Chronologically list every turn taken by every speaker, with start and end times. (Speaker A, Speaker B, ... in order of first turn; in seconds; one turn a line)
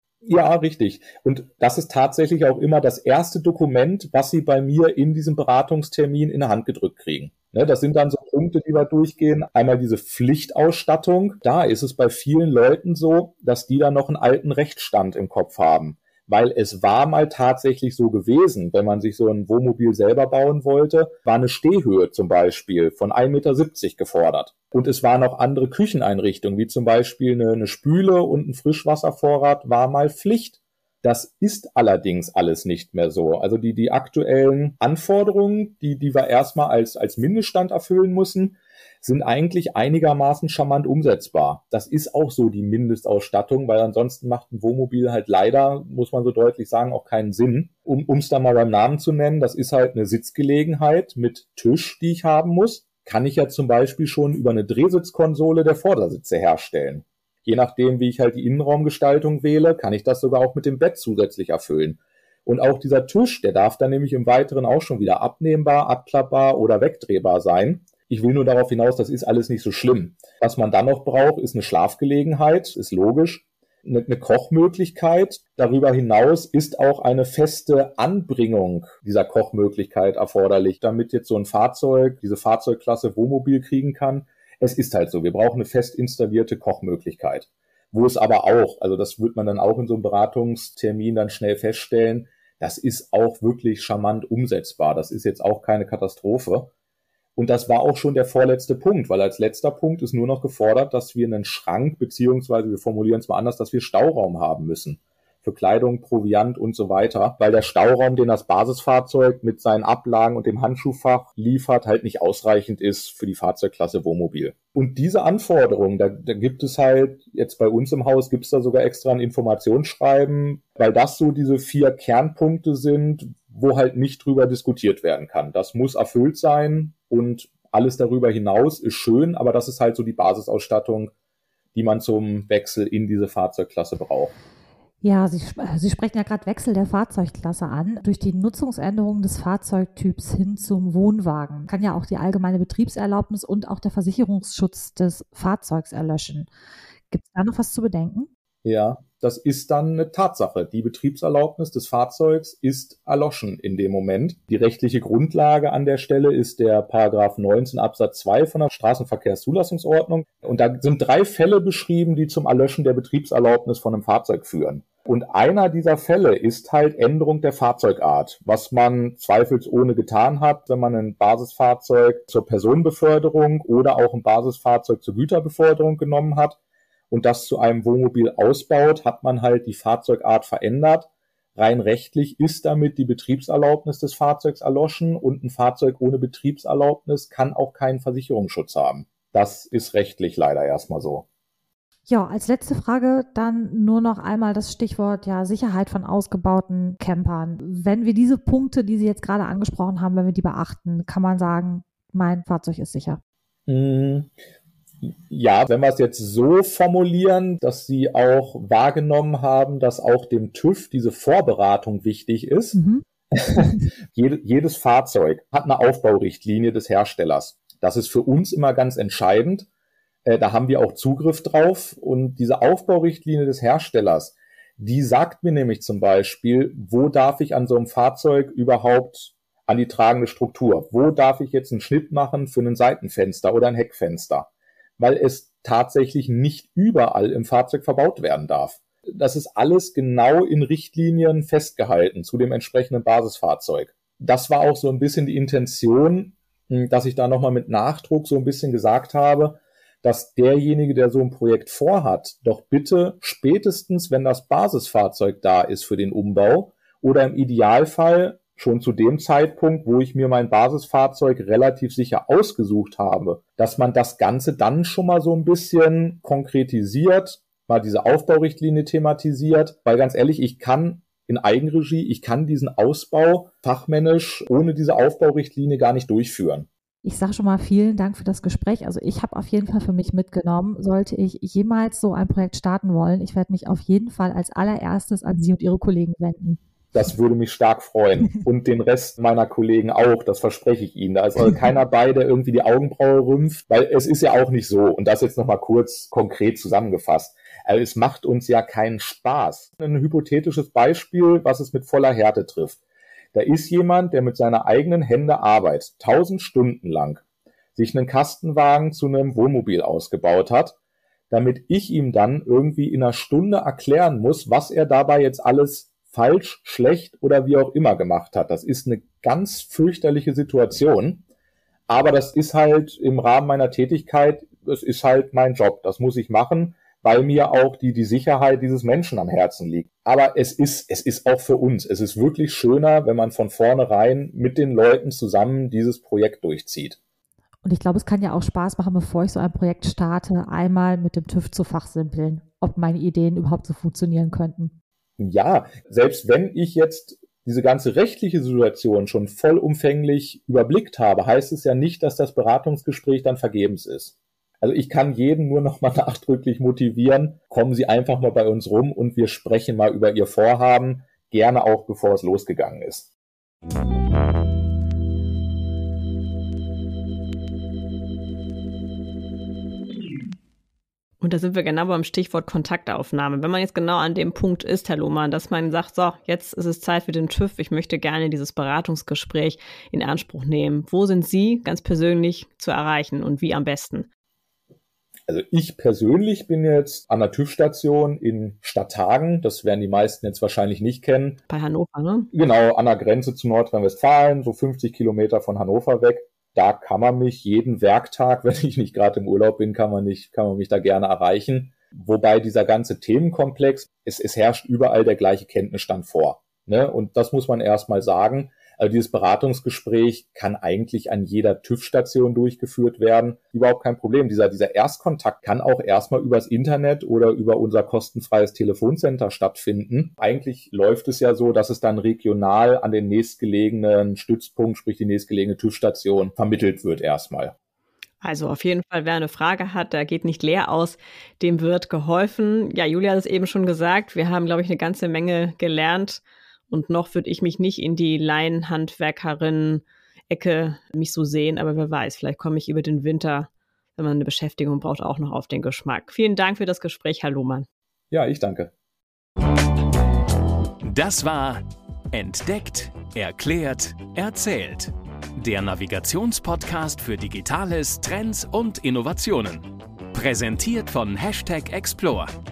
Speaker A: 0.2-96.7
Speaker A: 97.3-131.1
Speaker A: 131.7-134.3
Speaker B: 135.0-146.5
Speaker B: 147.1-148.3
Speaker A: 148.6-176.6
Speaker A: 177.1-191.2
Speaker B: 192.1-203.2
Speaker A: 203.7-204.3
Speaker A: 205.0-212.8
Speaker B: 212.7-213.0
Speaker A: 213.3-219.7
Speaker A: 220.2-276.7
Speaker B: 277.0-286.6
Speaker A: 286.9-302.8
Speaker A: 303.3-307.2
Speaker A: 307.7-310.8
Speaker A: 311.3-321.2
Speaker A: 321.9-337.0
Speaker B: 337.6-344.7
Speaker A: 345.2-363.1
Speaker C: 371.2-384.1
Speaker A: 385.3-391.4
Speaker C: 391.5-392.3
Speaker A: 392.3-427.5
Speaker C: 428.2-447.7
Speaker A: 448.1-448.7
Speaker D: 450.8-462.3